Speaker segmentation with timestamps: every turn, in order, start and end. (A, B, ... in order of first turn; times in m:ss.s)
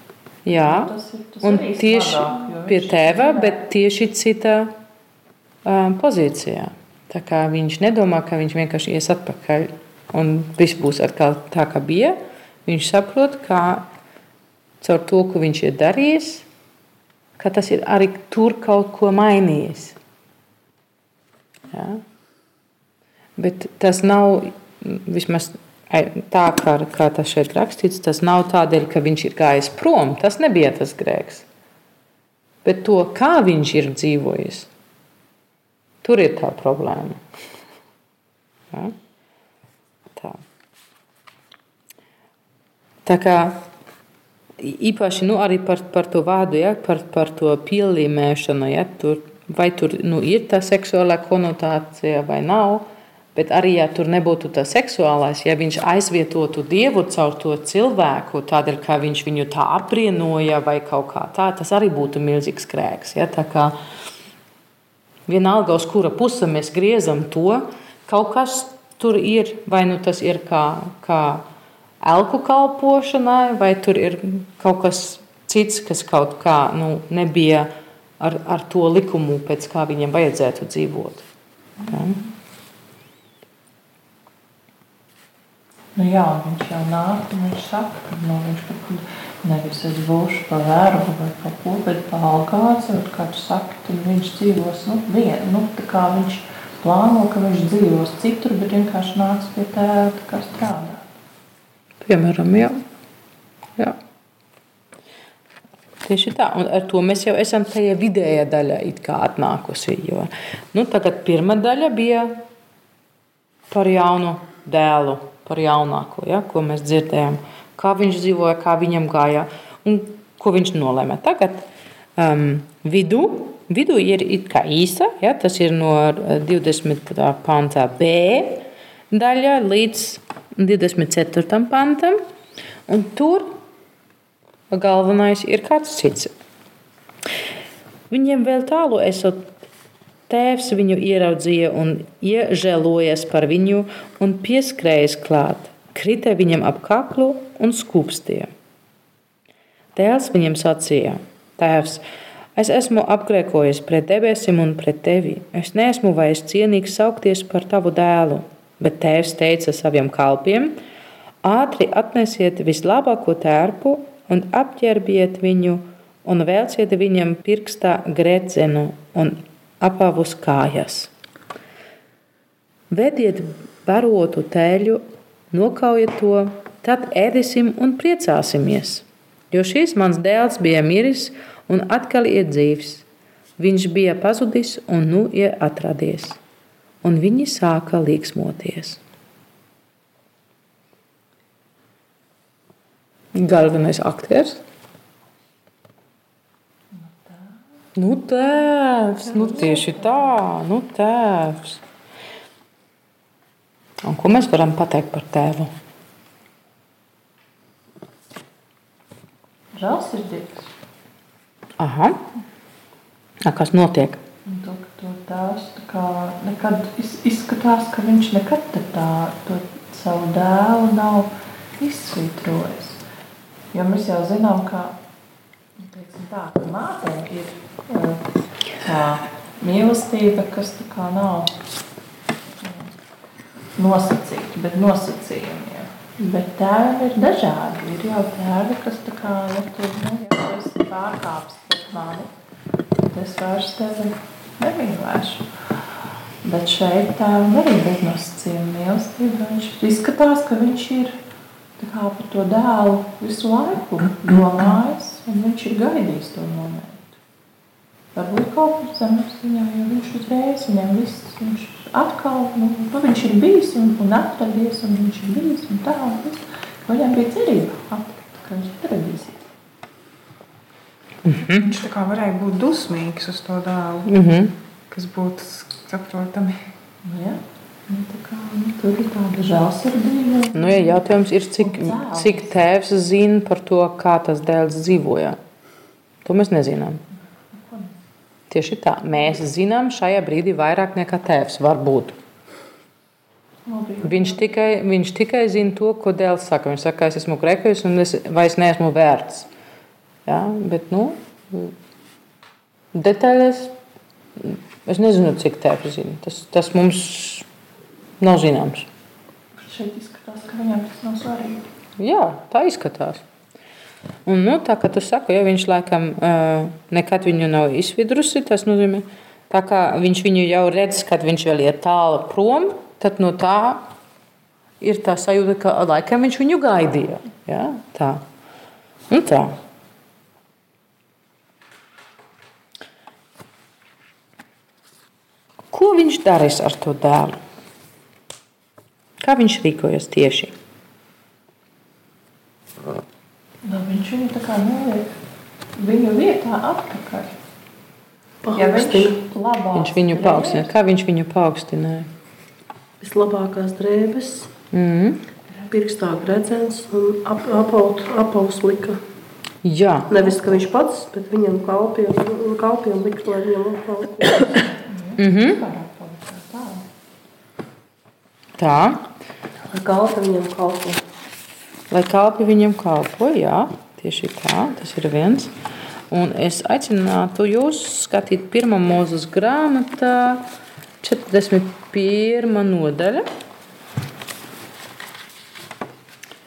0:00.4-0:00.9 A
0:00.5-0:03.6 B
0:01.4-0:04.7 A
0:05.6-0:13.9 A
0:14.8-0:16.4 A
0:17.4-0:20.0 A
0:21.7-0:22.0 A
0:23.4-0:31.4 A
0:32.6-0:34.7 A
0:36.0-0:37.2 A
0:43.0-0:43.6 A
0:44.6-1:03.7 A
1:05.3-1:11.4 A
1:12.0-1:21.2 A
1:21.8-1:22.3 B
1:21.9-1:22.2 A
1:25.9-1:41.1 B
1:42.0-1:42.8 A
1:46.0-1:52.4 A
1:53.7-2:12.2 A
2:12.9-2:13.6 A
2:14.7-2:16.3 A
2:18.1-2:19.5 A
2:20.3-2:28.5 A
2:30.0-2:32.0 A
2:32.6-2:40.8 A
2:41.4-2:51.1 A
2:52.9-3:03.0 A
3:03.6-3:06.4 A
3:07.0-3:09.0 A
3:13.3-3:14.6 A
3:16.9-3:17.6 B
3:18.0-3:21.8 A
3:19.2-3:20.4 B
3:24.0-3:25.7 A
3:29.7-3:30.7 B
3:31.8-3:32.2 A
3:33.4-3:34.2 A
3:34.4-3:43.0 B
3:43.7-3:45.0 B
3:45.8-3:48.2 B
3:48.8-3:51.6 B
3:52.6-3:52.9 B
3:53.8-4:02.3 B
4:03.0-4:05.5 B
4:06.4-4:11.2 B
4:11.8-4:17.2 B
4:18.1-4:29.4 B
4:31.2-4:31.7 A
4:31.5-4:34.1 C
4:34.0-4:34.5 A
4:34.9-4:36.6 C
4:37.0-4:41.0 B
4:40.5-4:45.4 A
4:41.6-4:42.5 B
4:46.2-4:47.0 A
4:47.5-4:48.0 B
4:48.5-4:52.2 A
4:53.7-4:54.5 B
4:54.0-4:59.5 A
5:00.2-5:01.7 A
5:02.9-5:03.7 A
5:04.4-5:07.4 A
5:08.2-5:08.9 A
5:09.5-5:11.7 B
5:12.0-5:13.2 A
5:14.2-5:23.9 A
5:24.8-5:28.2 A
5:29.1-5:29.6 A
5:35.7-5:37.4 A
5:39.2-5:40.5 A
5:43.6-5:45.2 B
5:45.8-5:47.3 B
5:48.4-5:49.2 D
5:48.5-5:50.7 B
5:49.7-5:52.1 A
5:53.0-5:54.5 D
5:54.7-5:55.2 A
5:55.7-5:59.0 D
5:59.6-6:00.4 A
6:00.1-6:04.6 D
6:04.6-6:06.8 B
6:05.2-6:05.6 A
6:08.6-6:09.1 A
6:09.7-6:11.0 D
6:11.9-6:15.5 A
6:16.1-6:20.4 A
6:21.0-6:23.2 A